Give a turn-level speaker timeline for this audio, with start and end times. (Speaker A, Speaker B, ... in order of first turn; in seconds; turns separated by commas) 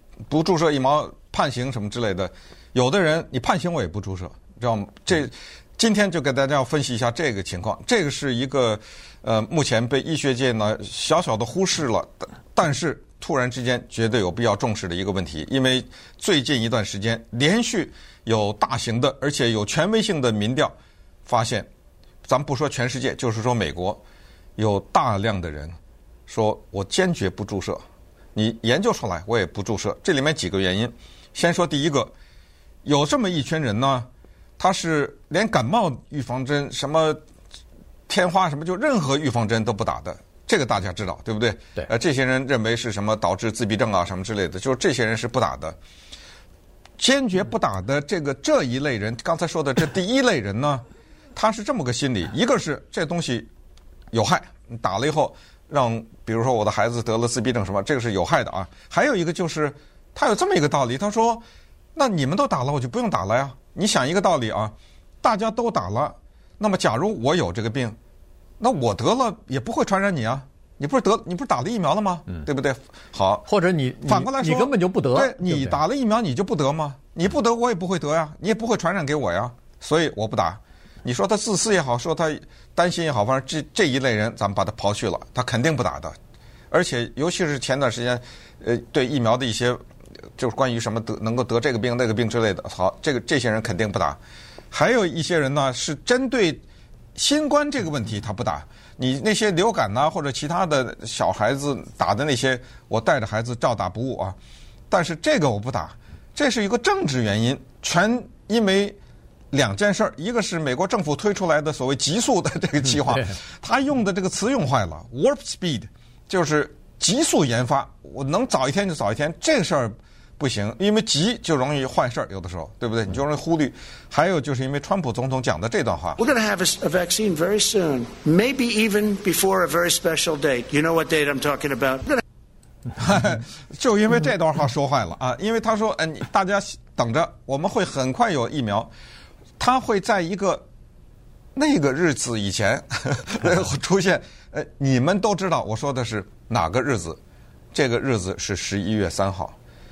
Speaker A: 0.3-20.7, Speaker A: 21.2-21.7, Speaker A: 22.2-24.0, Speaker A: 24.6-25.8, Speaker A: 26.3-27.8, Speaker A: 28.3-32.1, Speaker A: 32.8-34.1, Speaker A: 34.6-37.2, Speaker A: 38.1-45.8, Speaker A: 47.0-50.8, Speaker A: 51.4-53.5, Speaker A: 54.1-61.4, Speaker A: 61.9-68.0, Speaker A: 68.6-73.5, Speaker B: 73.5-75.8, Speaker A: 74.0-86.1, Speaker A: 86.7-89.8, Speaker A: 90.3-94.2, Speaker A: 94.7-96.6, Speaker A: 97.1-104.3, Speaker A: 104.9-109.0, Speaker A: 109.5-126.2, Speaker B: 113.1-113.3, Speaker C: 126.2-132.2, Speaker A: 132.9-138.9, Speaker A: 139.6-140.6, Speaker A: 141.5-147.2, Speaker A: 147.7-149.6